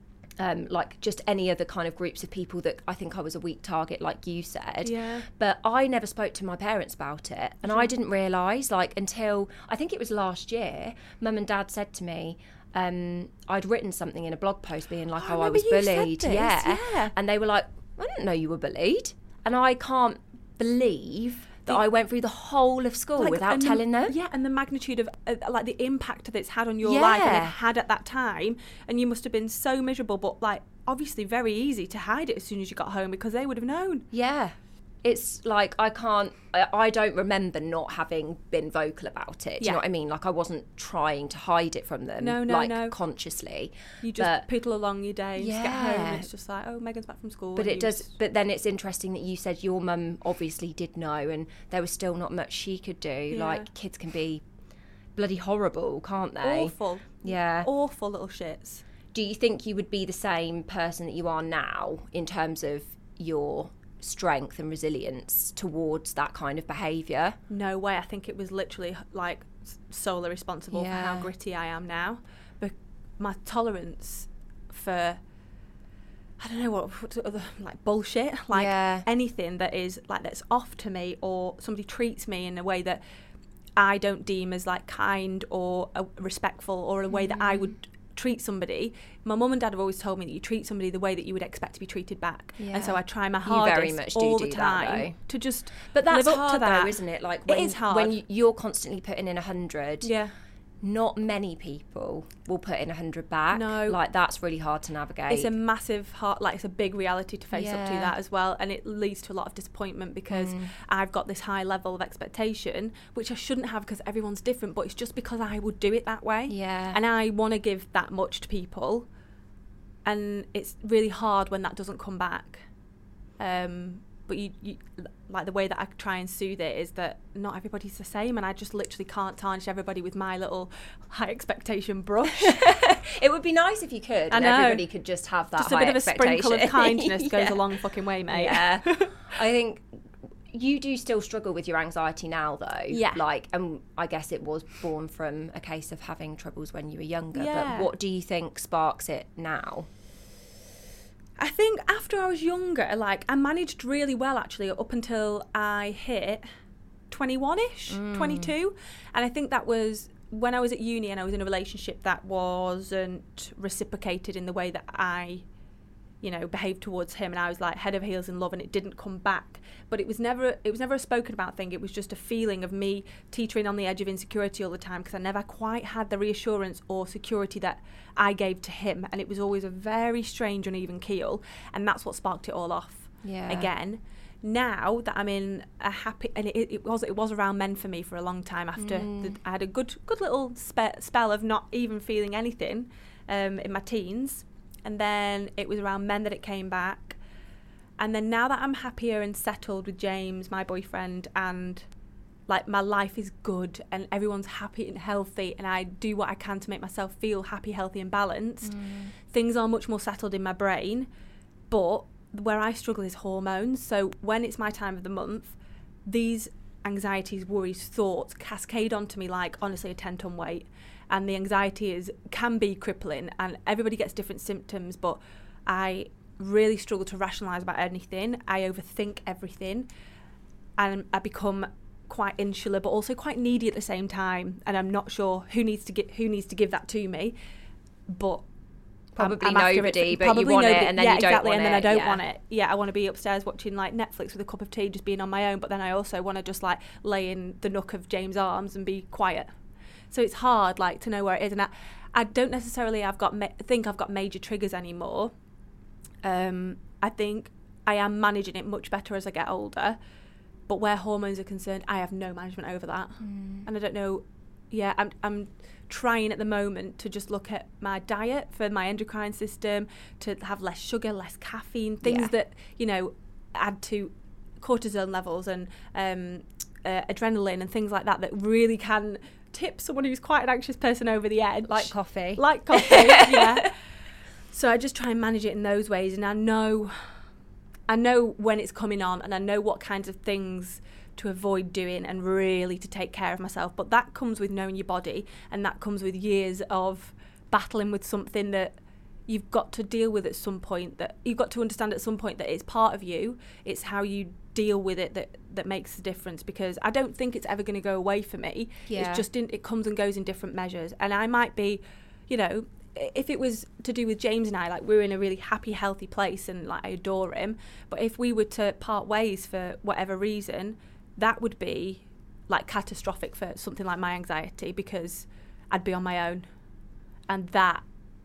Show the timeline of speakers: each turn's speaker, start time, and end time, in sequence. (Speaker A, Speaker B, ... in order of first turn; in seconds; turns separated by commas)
Speaker A: 0.4-24.1, Speaker B: 4.8-5.3, Speaker B: 15.2-17.1, Speaker B: 23.2-34.1, Speaker A: 26.8-27.6, Speaker A: 34.1-44.5, Speaker B: 42.2-43.0, Speaker B: 44.0-48.1, Speaker A: 45.4-46.3, Speaker A: 47.6-54.4, Speaker B: 53.3-53.7, Speaker A: 55.2-57.7, Speaker B: 56.4-58.8, Speaker A: 59.1-67.4, Speaker B: 67.5-75.2, Speaker A: 70.7-71.3, Speaker B: 76.4-83.0, Speaker A: 78.5-79.1, Speaker B: 83.8-98.2, Speaker A: 87.1-87.7, Speaker A: 92.6-95.2, Speaker A: 95.8-100.1, Speaker B: 100.0-100.3, Speaker A: 100.8-105.5, Speaker B: 103.5-104.0, Speaker B: 105.3-119.1, Speaker A: 107.5-108.1, Speaker A: 110.3-110.7, Speaker A: 116.5-117.0, Speaker B: 120.0-122.7, Speaker B: 123.4-132.9, Speaker A: 132.4-137.6, Speaker B: 134.3-134.8, Speaker B: 135.6-139.2, Speaker A: 138.3-139.9, Speaker A: 140.5-149.9, Speaker B: 142.9-143.2, Speaker B: 147.3-147.9, Speaker B: 151.4-156.4, Speaker B: 157.1-165.5, Speaker A: 157.9-158.5, Speaker B: 166.2-197.2, Speaker A: 183.2-183.7, Speaker A: 188.8-189.4, Speaker B: 198.0-201.9, Speaker B: 202.5-211.1, Speaker A: 208.6-209.1, Speaker B: 211.7-229.9, Speaker B: 230.8-237.4, Speaker B: 238.1-238.4, Speaker A: 239.2-242.2, Speaker B: 239.2-249.5, Speaker B: 250.1-255.3, Speaker B: 256.2-260.0, Speaker B: 260.7-283.8, Speaker A: 263.2-263.7, Speaker A: 272.0-272.3, Speaker A: 281.7-283.7, Speaker B: 284.5-287.1, Speaker B: 287.9-298.8, Speaker B: 299.3-326.5, Speaker A: 308.9-309.2, Speaker B: 327.3-327.8